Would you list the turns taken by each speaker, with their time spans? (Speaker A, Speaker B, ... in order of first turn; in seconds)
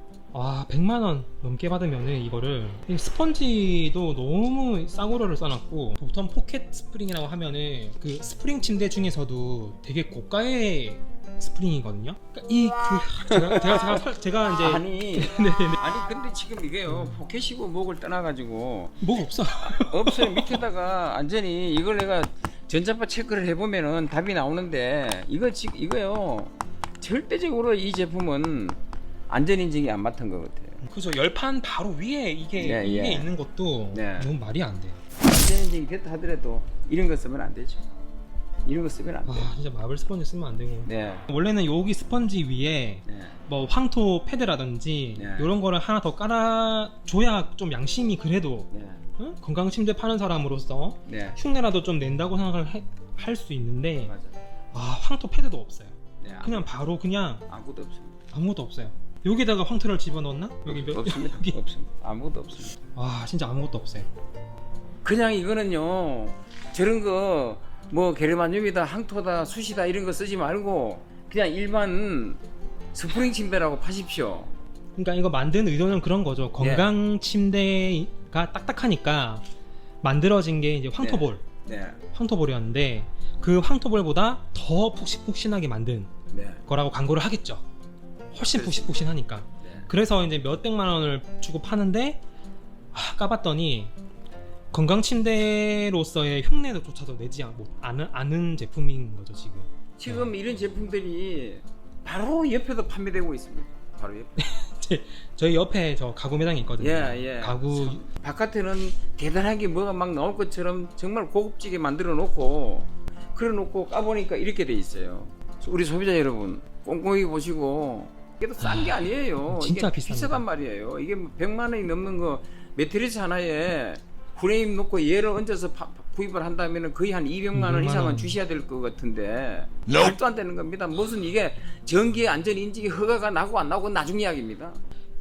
Speaker A: 0.3-15.8, 16.9-17.2, 19.0-20.6, 30.9-35.0, 39.3-54.1, 54.7-57.5, 58.3-61.6, 63.0-64.1, 75.0-79.4, 80.0-81.4, 82.1-86.1, 86.7-87.6, 88.3-92.2, 92.9-93.9, 94.7-100.3, 104.4-108.0, 118.6-120.4, 127.5-128.4
Speaker B: 13.3-14.0, 14.6-19.0, 19.6-30.8, 32.6-33.3, 33.9-34.3, 35.2-37.9, 38.6-39.5, 40.9-41.2, 43.1-43.4, 45.2-45.5, 48.7-49.0, 51.1-51.4, 54.1-54.4, 56.2-56.7, 57.5-58.2, 60.7-62.8, 65.0-72.4, 72.9-74.5, 76.6-76.9, 81.0-82.0, 86.3-86.7, 88.4-89.9, 100.0-104.5, 106.8-134.8